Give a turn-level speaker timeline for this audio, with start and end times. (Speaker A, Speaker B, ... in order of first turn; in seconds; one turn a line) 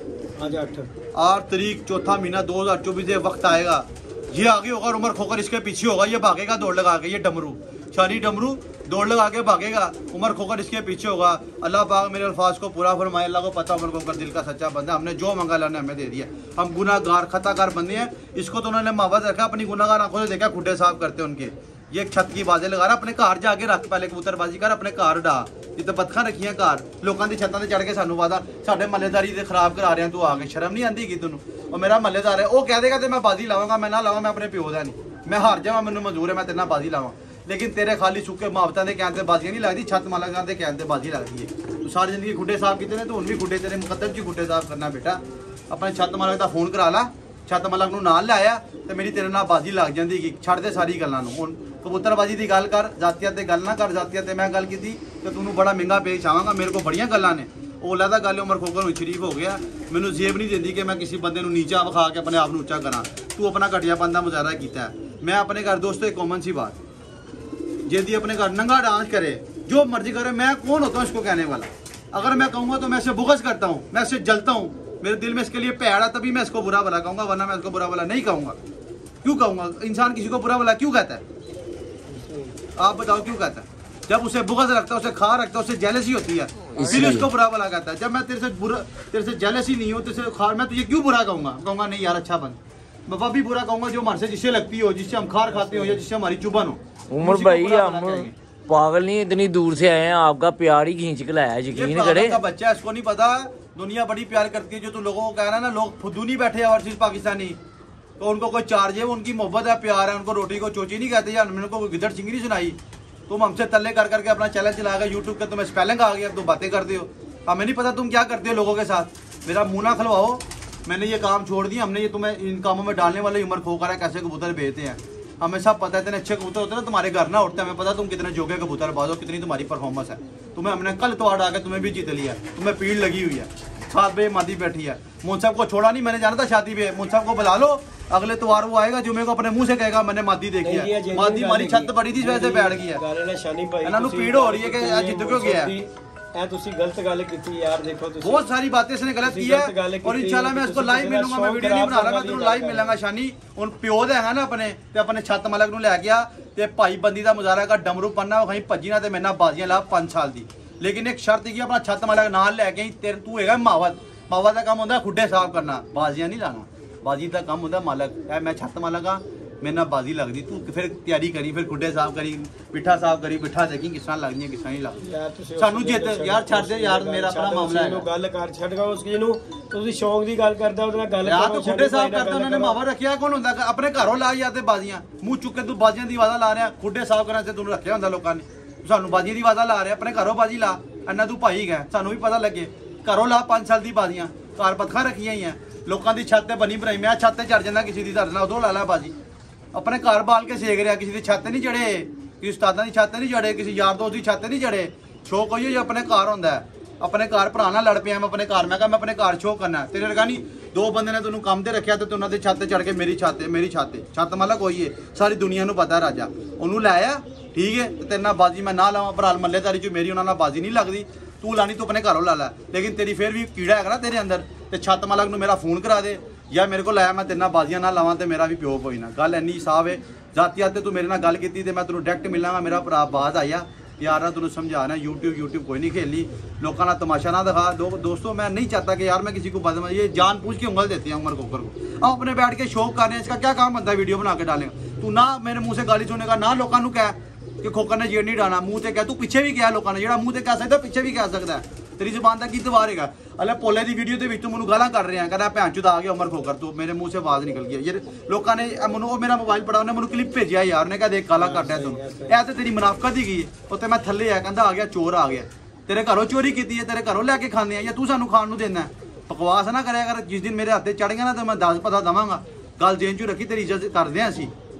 Speaker A: 0.4-0.9
Speaker B: 1.1-66.8
Speaker B: 67.9-78.6
Speaker B: 79.2-81.2
Speaker A: 82.1-82.6
Speaker B: 82.8-98.3
Speaker C: 86.7-87.3
Speaker A: 95.5-96.0
Speaker C: 97.1-102.4
Speaker B: 101.7-107.6
Speaker B: 108.2-112.8
Speaker B: 113.3-143.0
Speaker A: 140.6-148.4
Speaker B: 143.8-145.7
Speaker B: 148.2-175.0
Speaker A: 149.2-153.0
Speaker A: 175.0-182.8
Speaker B: 175.6-178.1
Speaker B: 181.2-199.1
Speaker B: 199.7-274.5
Speaker A: 261.4-262.4